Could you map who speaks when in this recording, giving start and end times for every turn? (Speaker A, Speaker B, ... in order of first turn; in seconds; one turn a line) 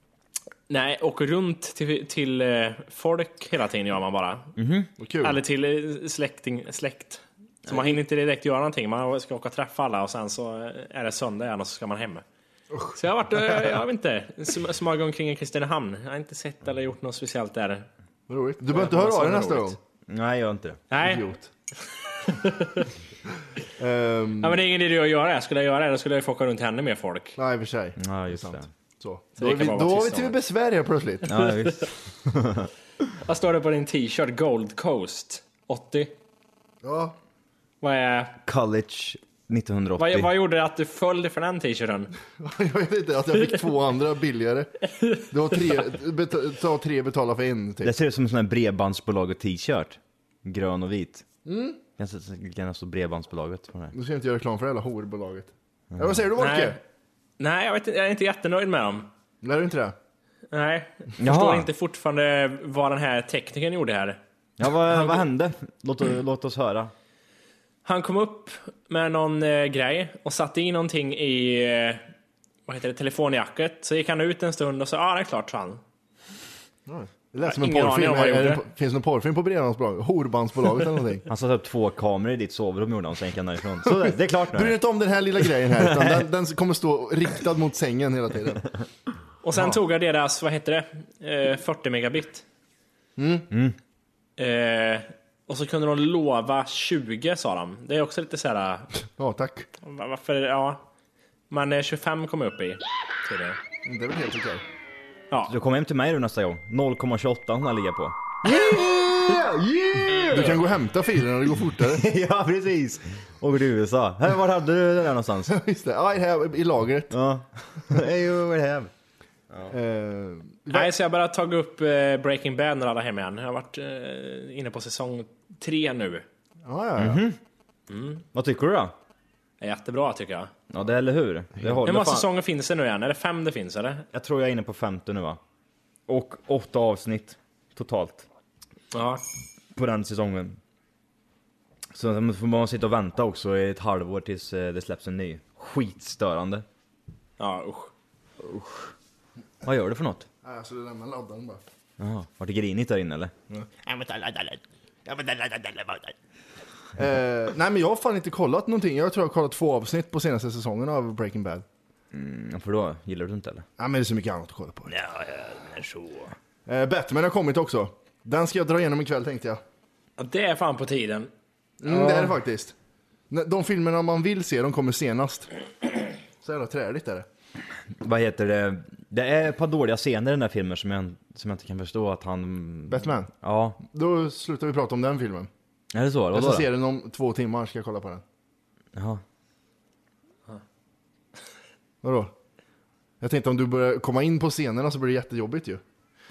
Speaker A: 0.7-4.5
Speaker B: 4.6-4.9
Speaker C: 5.0-5.4
Speaker A: 5.2-12.2
Speaker B: 7.7-8.0
Speaker A: 12.9-17.9
Speaker C: 18.3-19.8
Speaker A: 18.7-19.7
Speaker B: 20.1-20.8
Speaker A: 20.9-21.2
Speaker C: 21.0-21.5
Speaker A: 22.1-22.9
Speaker C: 23.8-24.6
Speaker A: 24.4-27.4
Speaker C: 27.4-31.3
Speaker B: 28.0-28.7
Speaker A: 29.4-30.4
Speaker B: 31.2-32.7
Speaker A: 31.4-31.9
Speaker A: 33.2-36.1
Speaker C: 36.8-37.1
Speaker A: 37.8-38.4
Speaker B: 38.5-40.3
Speaker A: 40.0-42.1
Speaker C: 42.4-44.7
Speaker A: 45.0-45.2
Speaker C: 45.3-47.9
Speaker B: 47.8-51.2
Speaker C: 51.4-51.8
Speaker B: 52.0-53.9
Speaker C: 53.9-56.8
Speaker A: 56.4-56.8
Speaker A: 57.4-59.1
Speaker C: 59.4-60.0
Speaker A: 60.5-64.2
Speaker B: 61.2-61.7
Speaker B: 64.6-66.9
Speaker A: 67.8-72.0
Speaker A: 72.7-75.8
Speaker C: 76.9-81.3
Speaker A: 77.4-78.6
Speaker B: 81.3-84.8
Speaker C: 83.8-88.7
Speaker B: 85.7-86.3
Speaker A: 89.4-92.4
Speaker C: 93.2-93.5
Speaker B: 93.5-93.8
Speaker A: 94.4-98.9
Speaker C: 99.2-99.7
Speaker A: 99.8-100.8
Speaker A: 101.5-103.6
Speaker C: 103.8-104.6
Speaker B: 105.5-110.6
Speaker C: 108.5-109.0
Speaker C: 110.3-112.1
Speaker B: 111.8-115.5
Speaker C: 115.5-117.2
Speaker B: 117.1-118.9
Speaker C: 119.7-120.9
Speaker A: 120.7-126.2
Speaker C: 126.6-127.2
Speaker B: 127.0-127.4
Speaker A: 127.9-128.2
Speaker B: 128.3-128.9
Speaker A: 129.6-130.5
Speaker B: 130.7-132.3
Speaker A: 131.8-134.0
Speaker B: 134.1-135.4
Speaker B: 136.1-138.3
Speaker A: 138.9-139.2
Speaker B: 139.7-140.6
Speaker B: 141.9-146.6
Speaker A: 147.4-147.9
Speaker B: 148.4-148.9
Speaker B: 149.6-150.3
Speaker C: 150.4-151.6
Speaker B: 152.0-156.1
Speaker C: 156.9-161.6
Speaker B: 162.1-163.7
Speaker C: 163.8-164.9
Speaker B: 164.9-166.3
Speaker C: 166.7-169.6
Speaker A: 170.2-171.3
Speaker C: 171.8-172.7
Speaker A: 171.9-172.2
Speaker C: 173.3-175.5
Speaker C: 176.4-177.2
Speaker B: 178.0-183.8
Speaker C: 182.9-183.3
Speaker C: 183.8-185.5
Speaker B: 185.9-186.7
Speaker C: 186.3-188.2
Speaker B: 188.9-189.2
Speaker C: 192.0-192.3
Speaker C: 193.2-195.8